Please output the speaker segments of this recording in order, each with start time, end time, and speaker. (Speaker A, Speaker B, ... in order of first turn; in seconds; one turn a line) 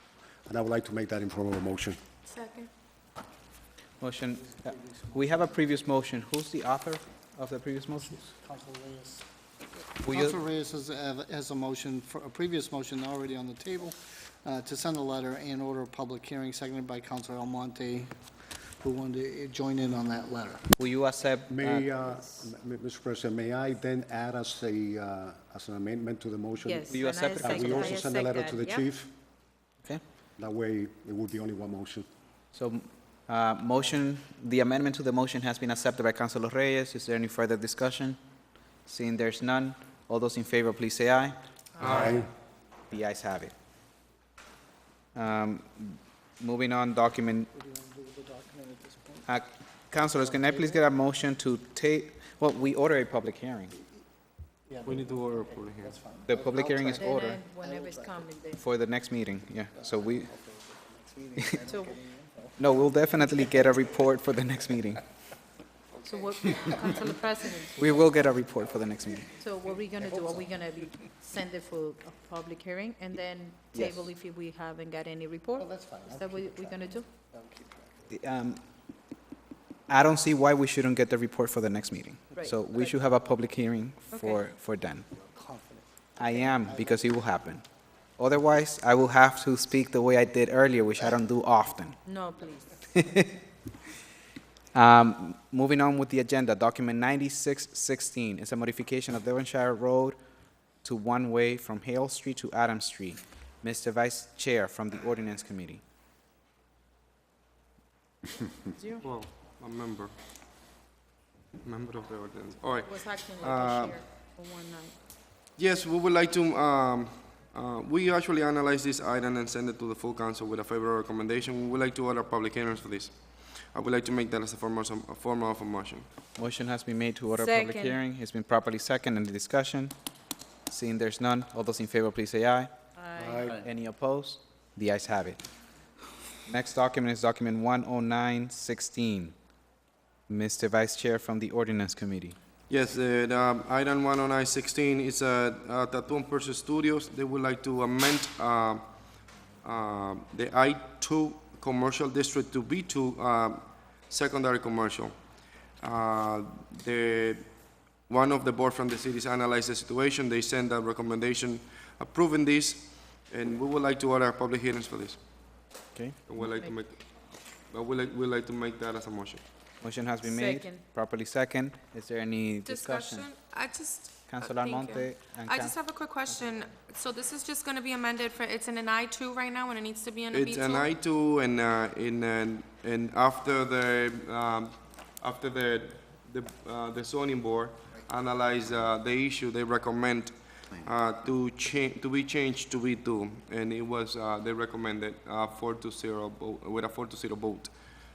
Speaker A: 0.5-2.0
Speaker B: 2.3-2.7
Speaker C: 4.0-8.2
Speaker D: 4.8-5.2
Speaker D: 8.1-9.3
Speaker D: 10.0-18.1
Speaker C: 10.0-10.4
Speaker D: 18.8-20.7
Speaker C: 20.8-22.1
Speaker A: 21.5-29.1
Speaker E: 26.6-28.9
Speaker C: 26.9-28.0
Speaker A: 30.4-32.1
Speaker C: 32.5-38.2
Speaker C: 38.9-41.4
Speaker A: 41.8-42.3
Speaker F: 41.8-42.2
Speaker C: 42.9-43.5
Speaker C: 45.1-47.5
Speaker D: 47.5-49.3
Speaker C: 49.3-53.7
Speaker D: 50.2-50.8
Speaker D: 54.7-58.4
Speaker F: 54.9-56.0
Speaker C: 56.3-57.4
Speaker E: 56.9-58.6
Speaker C: 58.6-60.3
Speaker D: 59.8-62.8
Speaker E: 61.7-62.0
Speaker C: 62.6-65.0
Speaker E: 66.0-68.0
Speaker D: 66.1-67.0
Speaker C: 67.8-69.3
Speaker E: 69.4-77.1
Speaker D: 70.0-70.6
Speaker C: 73.7-74.0
Speaker D: 75.5-78.0
Speaker C: 78.1-78.6
Speaker C: 79.9-85.0
Speaker E: 82.3-82.9
Speaker E: 84.1-84.5
Speaker D: 85.1-87.1
Speaker C: 86.2-87.7
Speaker C: 88.2-92.0
Speaker E: 92.0-92.8
Speaker C: 94.7-100.2
Speaker C: 100.8-105.8
Speaker E: 108.8-109.0
Speaker F: 109.0-110.1
Speaker F: 111.6-114.0
Speaker E: 112.8-115.0
Speaker F: 115.6-126.1
Speaker C: 126.4-129.9
Speaker E: 127.3-128.0
Speaker C: 130.7-132.7
Speaker E: 132.9-133.6
Speaker A: 133.2-133.6
Speaker C: 133.6-135.4
Speaker C: 136.5-139.3
Speaker C: 140.3-142.4
Speaker F: 142.7-148.8
Speaker F: 149.6-155.2
Speaker F: 155.8-157.5
Speaker F: 158.1-165.2
Speaker F: 166.3-167.0
Speaker E: 166.4-166.8
Speaker F: 167.7-169.4
Speaker C: 169.8-173.3
Speaker E: 170.2-170.8
Speaker B: 172.7-180.9
Speaker C: 174.3-175.8
Speaker F: 180.3-197.7